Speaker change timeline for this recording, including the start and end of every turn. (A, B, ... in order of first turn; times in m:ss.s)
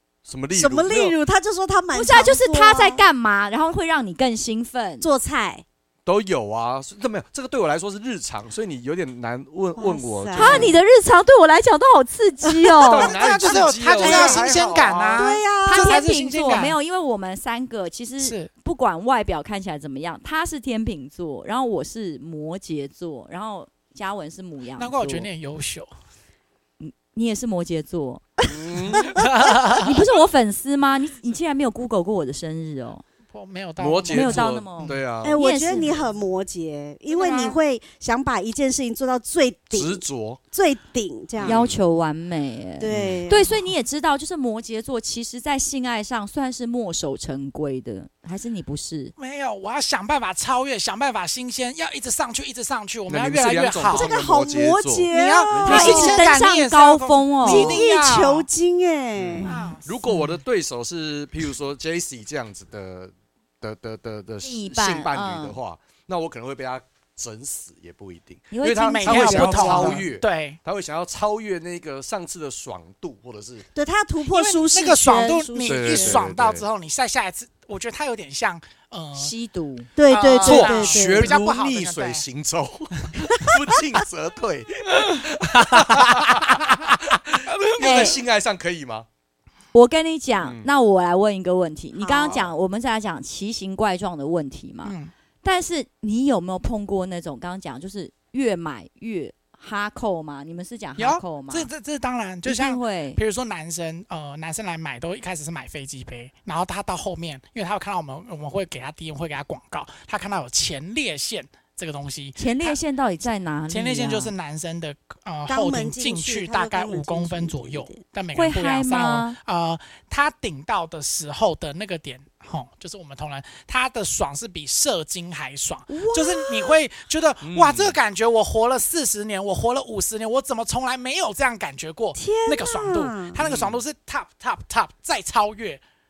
0:00.2-0:01.1 A
0:00.5-0:03.0 B
0:01.9-0:05.1 C
0:05.0-0:05.6 B
0:06.0-0:10.8 A
0:09.8-0:10.7 B
0:10.3-0:13.1 C
0:12.5-0:14.5 B
0:12.8-0:15.2 A
0:13.1-0:16.8 D
0:15.1-0:16.0 B
0:15.6-0:25.3 C
0:18.2-0:18.5 D
0:24.8-0:25.9 D
0:26.8-0:33.0 C
0:28.4-0:29.1 A
0:29.2-0:29.9 D
0:33.3-0:35.0 D
0:33.8-0:35.4 A
0:34.1-0:36.0 C
0:35.2-0:41.6 B
0:37.1-0:37.5 D
0:37.2-0:37.5 C
0:39.7-0:40.4 A
0:41.4-0:41.8 A
0:41.4-0:49.1 C
0:42.8-0:43.5 B
0:42.9-0:43.3 A
0:49.2-0:54.1 D
0:53.1-0:56.2 A
0:53.9-0:56.3 B
0:55.1-0:58.5 D
0:55.6-0:57.8 C
0:57.4-0:59.5 B
0:59.2-1:13.6 A
0:59.4-1:00.3 D
1:04.4-1:05.6 C
1:08.5-1:10.0 C
1:08.9-1:10.6 D
1:13.7-1:16.2 B
1:14.3-1:19.3 D
1:15.6-1:16.6 A
1:19.1-1:19.9 C
1:20.0-1:21.4 B
1:20.1-1:22.2 D
1:20.4-1:29.1 A
1:25.1-1:27.0 D
1:27.8-1:28.2 C
1:29.7-1:41.7 C
1:30.4-1:30.7 A
1:32.0-1:32.5 B
1:34.8-1:35.1 D
1:41.0-1:52.8 D
1:42.4-1:43.2 C
1:52.4-1:54.3 C
1:53.7-2:15.8 D
1:55.5-1:58.0 B
1:58.3-1:59.4 C
2:06.0-2:06.7 B
2:07.4-2:08.0 A
2:12.2-2:13.4 B
2:13.4-2:13.8 A